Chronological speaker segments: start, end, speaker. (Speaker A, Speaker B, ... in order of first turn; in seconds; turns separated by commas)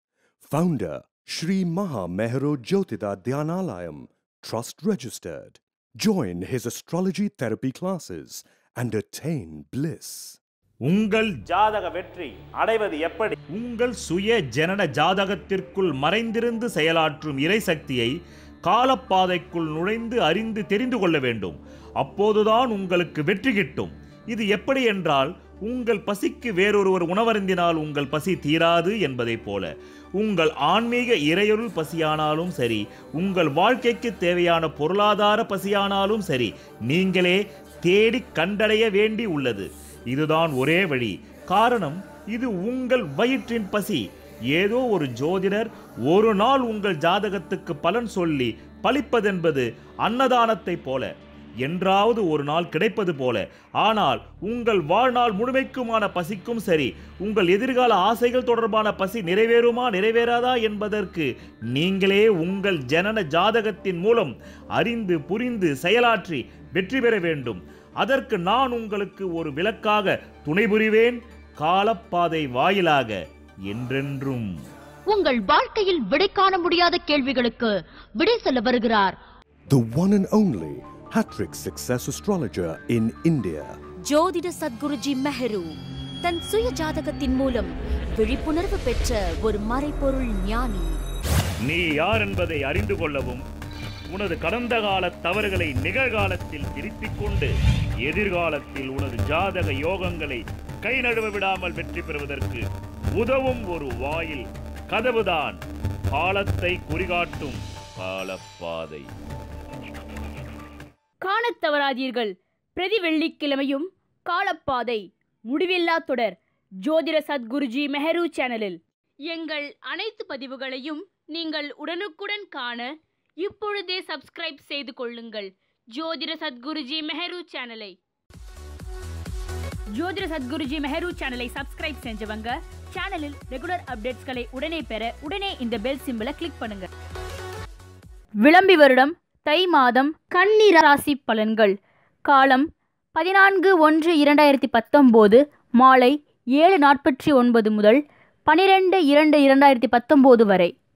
Speaker A: 0.4-10.4, Speaker B: 10.8-51.1, Speaker B: 51.6-73.2, Speaker B: 73.7-74.5, Speaker C: 75.1-79.1, Speaker A: 79.7-83.8, Speaker C: 84.0-91.0, Speaker B: 91.6-93.4, Speaker B: 94.1-97.5, Speaker B: 98.0-102.6, Speaker B: 103.2-109.1, Speaker D: 111.2-128.0, Speaker D: 129.9-136.9, Speaker D: 138.4-150.7